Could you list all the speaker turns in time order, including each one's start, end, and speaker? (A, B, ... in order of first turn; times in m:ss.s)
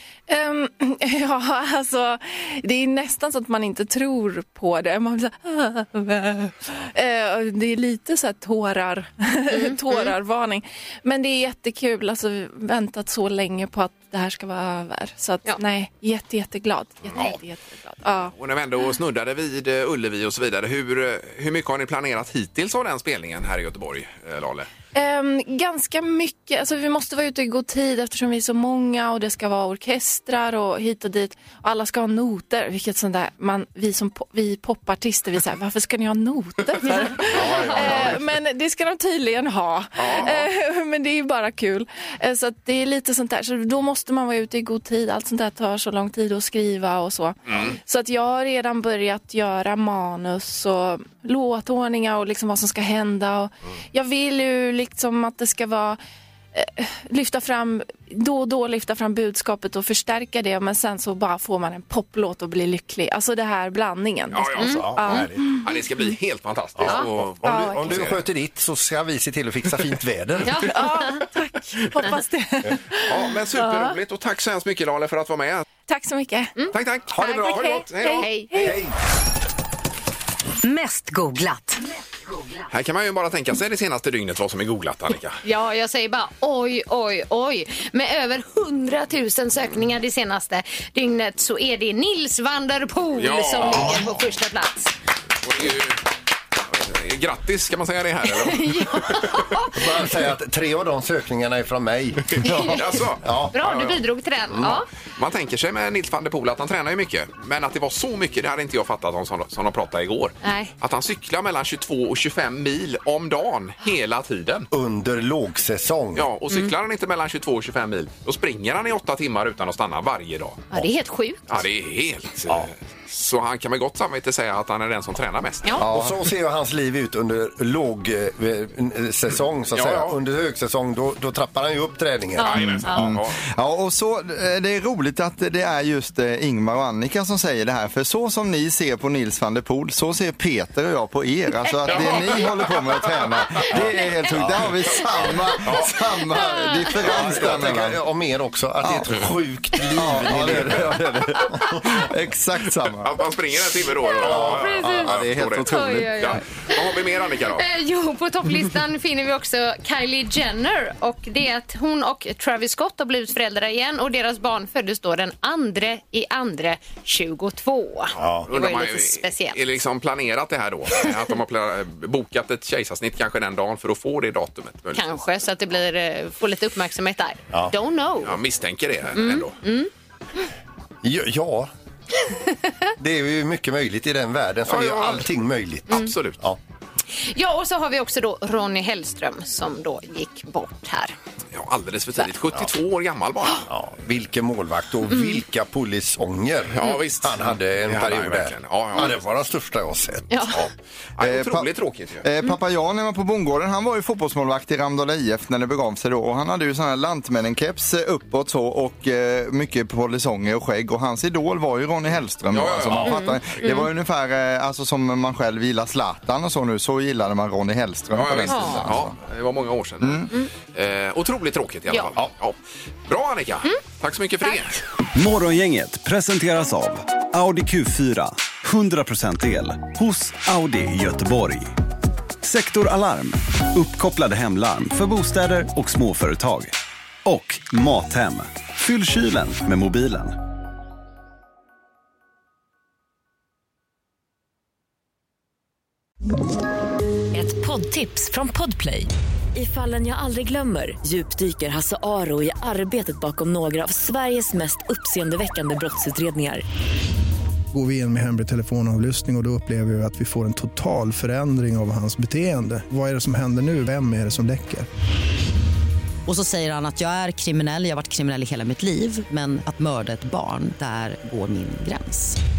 0:00.3-0:18.3 A
0:09.5-0:10.0 B
0:17.1-0:17.4 C
0:18.3-0:24.7 C
0:24.9-0:56.0 A
0:37.2-0:38.2 D
0:40.0-0:40.5 C
0:47.5-0:47.8 C
0:56.5-1:05.8 A
1:04.3-1:05.0 C
1:04.6-1:05.3 B
1:04.6-1:05.4 D
1:05.6-1:08.2 C
1:06.8-1:10.6 D
1:07.4-1:08.0 A
1:10.4-1:11.1 B
1:10.5-1:13.9 A
1:13.0-1:15.7 C
1:15.9-1:18.8 A
1:16.6-1:18.7 B
1:16.7-1:18.3 C
1:18.6-1:18.9 D
1:20.6-1:21.8 E
1:22.7-1:25.4 C
1:25.4-1:34.9 B
1:33.2-1:34.1 C
1:33.6-1:34.0 D
1:35.4-1:36.0 C
1:36.7-1:39.6 C
1:38.2-1:39.8 B
1:39.7-1:42.4 D
1:42.4-1:44.0 C
1:42.4-1:42.8 B
1:43.2-1:43.5 D
1:43.5-1:44.9 B
1:44.5-1:44.8 D
1:45.2-1:54.7 C
1:50.4-1:50.7 B
1:54.7-1:56.3 D
1:56.1-2:00.7 C
2:00.7-2:01.6 B
2:01.5-2:05.8 C
2:05.8-2:06.2 F
2:05.8-2:12.8 D
2:09.7-2:10.1 C
2:12.4-2:13.0 B
2:12.4-2:13.4 C
2:12.7-2:28.0 F
2:21.9-2:23.1 C
2:23.7-2:25.3 D
2:25.6-2:25.9 C
2:27.0-2:31.8 D
2:28.8-2:29.1 F
2:29.9-2:31.3 F
2:31.9-2:33.2 F
2:32.9-2:37.6 C
2:34.0-2:36.8 B
2:34.2-2:35.5 D
2:35.0-2:36.0 F
2:37.5-2:49.6 B
2:48.2-2:48.5 D
2:48.5-2:55.0 C
2:54.9-2:58.4 B
2:58.2-2:59.6 C
2:59.1-2:59.9 B
3:01.0-3:01.7 D
3:03.0-3:06.6 D
3:04.7-3:05.3 C
3:05.9-3:06.4 C
3:07.2-3:11.1 B
3:11.5-3:13.7 C
3:13.7-3:20.3 D
3:15.1-3:15.4 B
3:16.7-3:19.2 C
3:20.3-3:20.6 B
3:20.5-3:22.3 C
3:21.2-3:21.7 F
3:22.2-3:39.1 F
3:32.5-3:33.6 C
3:33.1-3:33.8 B
3:38.1-3:42.6 C
3:38.5-3:38.8 B
3:40.0-3:40.3 F
3:43.1-3:44.8 C
3:45.1-3:51.7 G
3:52.4-3:56.7 G
3:57.2-4:00.3 G
4:07.4-4:08.9 E
4:07.4-4:08.9 H
4:09.6-4:16.6 H
4:11.0-4:11.6 E
4:14.5-4:16.5 E
4:17.7-4:24.9 I
4:26.2-4:32.4 J